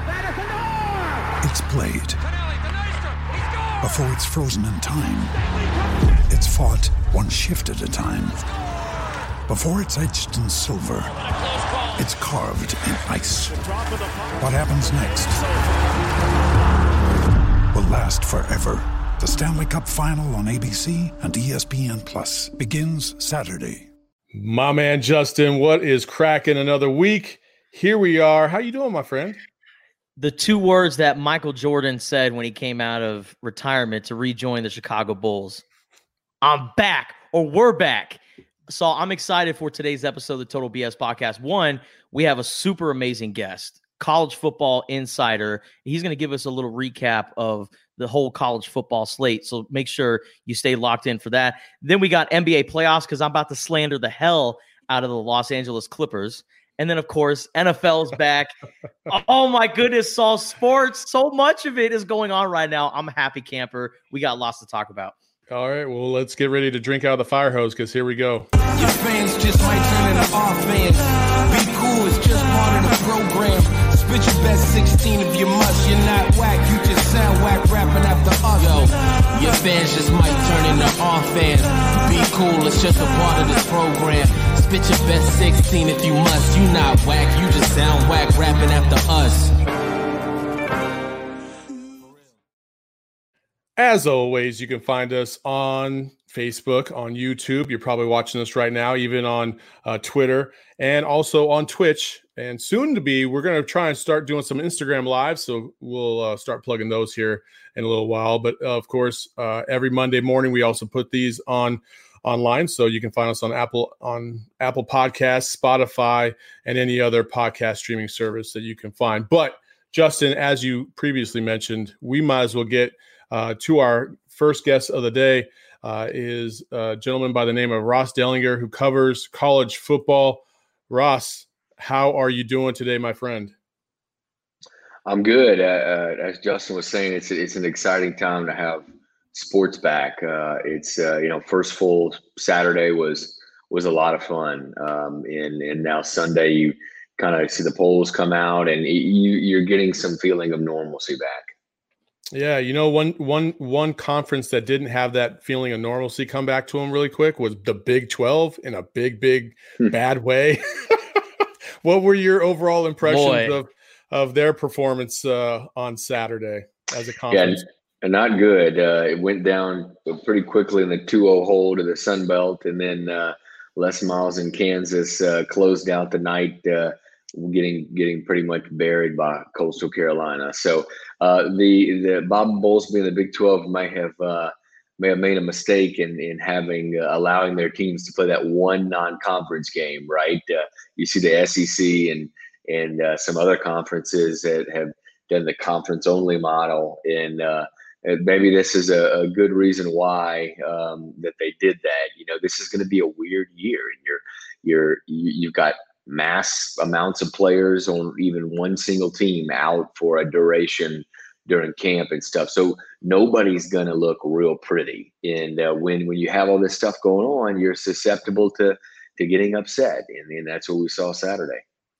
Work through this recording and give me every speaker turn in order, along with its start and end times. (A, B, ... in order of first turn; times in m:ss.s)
0:01.4-0:02.2 A
0:03.8-0:05.4 A
0:06.3-0:08.4 A
0:09.5-0:11.2 A
0:11.9-0:13.7 A
0:14.4-0:15.5 A
0:17.7-0:23.9 A
0:24.3-0:29.4 B
0:30.2-0:35.6 C
0:36.4-0:58.5 C
0:59.1-1:05.2 C
1:05.5-1:08.5 B
1:08.7-1:29.5 D
1:33.8-2:13.5 B
2:15.1-2:31.5 E
2:32.3-2:41.2 B
2:41.8-2:47.6 B
2:43.0-2:43.6 C
2:47.3-3:41.6 E